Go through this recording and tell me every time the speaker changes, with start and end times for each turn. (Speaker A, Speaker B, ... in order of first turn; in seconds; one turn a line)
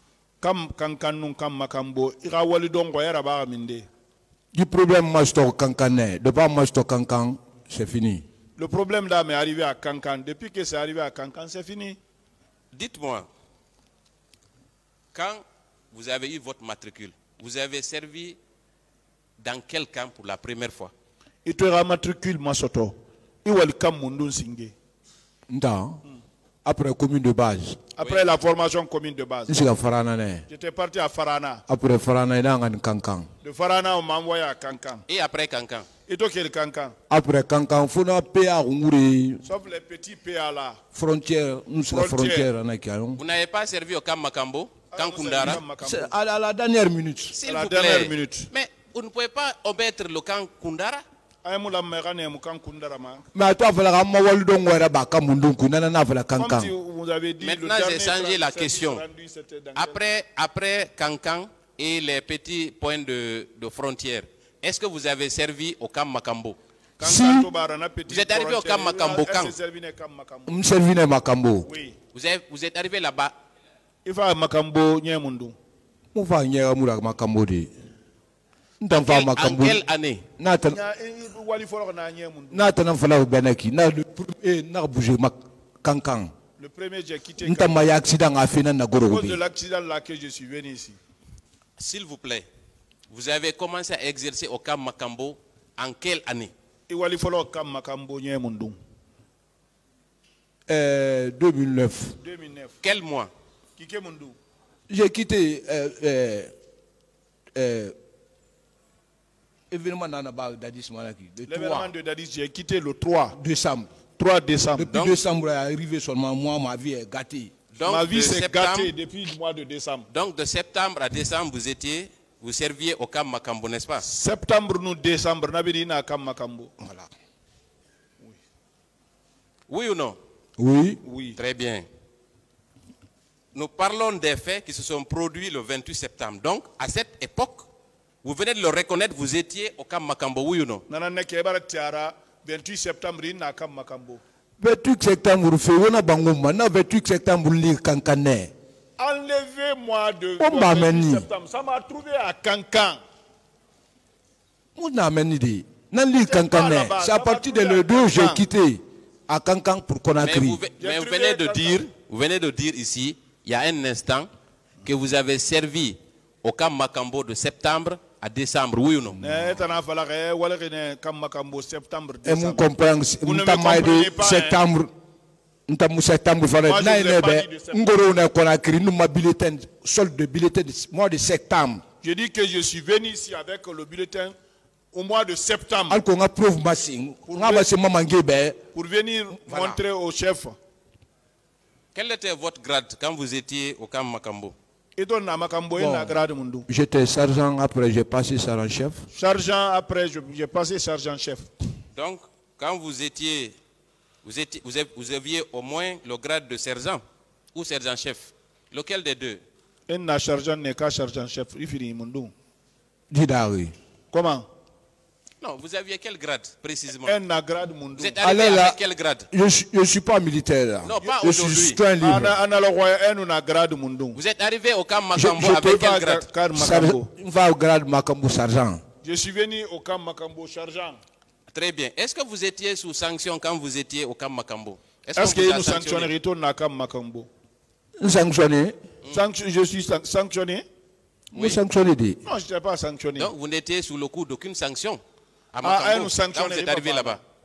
Speaker A: 0.4-3.9
Speaker B: 4.5-8.2
Speaker A: 8.6-12.0
Speaker C: 12.7-13.3
Speaker C: 15.1-18.4
Speaker C: 19.4-20.9
Speaker A: 21.4-24.7
Speaker B: 25.5-26.0
Speaker B: 26.6-27.8
Speaker A: 27.9-29.6
Speaker B: 29.5-30.4
Speaker A: 30.5-31.6
Speaker B: 31.7-33.3
Speaker A: 33.4-35.0
Speaker C: 35.1-35.9
Speaker A: 36.1-36.9
Speaker B: 37.1-39.4
Speaker A: 39.4-40.8
Speaker B: 40.9-43.2
Speaker A: 41.9-42.5
Speaker C: 43.2-45.6
Speaker A: 44.9-46.1
Speaker B: 45.8-47.4
Speaker C: 47.3-51.0
Speaker A: 47.5-48.5
Speaker A: 51.4-53.2
Speaker B: 53.3-56.7
Speaker A: 56.4-60.0
Speaker C: 57.4-59.0
Speaker C: 59.7-66.6
Speaker A: 67.0-70.6
Speaker B: 67.0-67.5
Speaker C: 68.1-69.5
Speaker B: 70.5-71.7
Speaker A: 71.6-72.0
Speaker C: 72.1-73.3
Speaker A: 74.0-75.5
Speaker B: 76.1-77.7
Speaker B: 78.8-79.8
Speaker C: 78.9-80.2
Speaker B: 80.4-80.8
Speaker A: 80.7-82.7
Speaker B: 82.5-86.3
Speaker A: 86.6-87.9
Speaker B: 87.4-89.4
Speaker A: 89.0-91.0
Speaker C: 91.8-92.5
Speaker C: 93.1-96.5
Speaker A: 96.9-98.8
Speaker B: 100.7-102.2
Speaker A: 102.2-102.8
Speaker C: 102.8-103.3
Speaker A: 103.8-104.3
Speaker B: 104.9-106.5
Speaker B: 107.5-107.9
Speaker B: 109.7-111.9
Speaker A: 111.5-113.4
Speaker B: 113.3-113.9
Speaker A: 114.2-115.0
Speaker B: 114.7-117.5
Speaker C: 117.7-118.9
Speaker A: 117.8-120.1
Speaker C: 120.1-124.0
Speaker A: 124.0-126.7
Speaker B: 126.8-127.1
Speaker C: 129.7-130.2
Speaker B: 130.6-131.0
Speaker A: 131.0-131.4
Speaker C: 131.3-131.8
Speaker C: 133.5-137.7
Speaker C: 138.2-140.8
Speaker A: 140.9-144.2
Speaker B: 144.6-148.5
Speaker A: 149.0-153.0
Speaker B: 150.4-151.3
Speaker B: 154.8-160.6
Speaker A: 156.3-158.4
Speaker C: 160.2-164.3
Speaker A: 160.8-161.8
Speaker C: 164.8-169.2
Speaker B: 169.2-169.6
Speaker A: 169.2-172.6
Speaker B: 172.2-174.9
Speaker A: 173.2-174.6
Speaker B: 175.7-181.8
Speaker A: 176.7-177.9
Speaker A: 182.0-184.3
Speaker A: 184.9-186.0
Speaker B: 185.9-188.6
Speaker A: 187.3-187.7
Speaker A: 188.7-190.6
Speaker B: 189.5-189.8
Speaker C: 191.9-194.5
Speaker A: 195.0-196.7
Speaker B: 195.8-199.0
Speaker A: 199.1-201.5
Speaker C: 201.9-203.5
Speaker C: 204.2-207.0
Speaker C: 207.5-209.4
Speaker A: 209.9-212.3
Speaker B: 213.1-213.7
Speaker A: 214.1-214.4
Speaker C: 215.4-217.2
Speaker A: 217.0-218.1
Speaker C: 218.0-219.3
Speaker B: 218.2-218.8
Speaker B: 219.3-222.4
Speaker C: 220.8-221.8
Speaker A: 222.0-224.2
Speaker C: 224.1-226.2
Speaker B: 225.1-225.8
Speaker A: 225.5-227.1
Speaker B: 226.5-228.8
Speaker A: 229.0-231.0
Speaker C: 231.5-236.1
Speaker A: 235.2-237.3
Speaker B: 238.0-238.7
Speaker A: 239.1-240.6
Speaker B: 241.3-242.2
Speaker A: 242.2-243.3
Speaker C: 243.2-245.0
Speaker C: 245.5-247.2
Speaker A: 245.6-247.2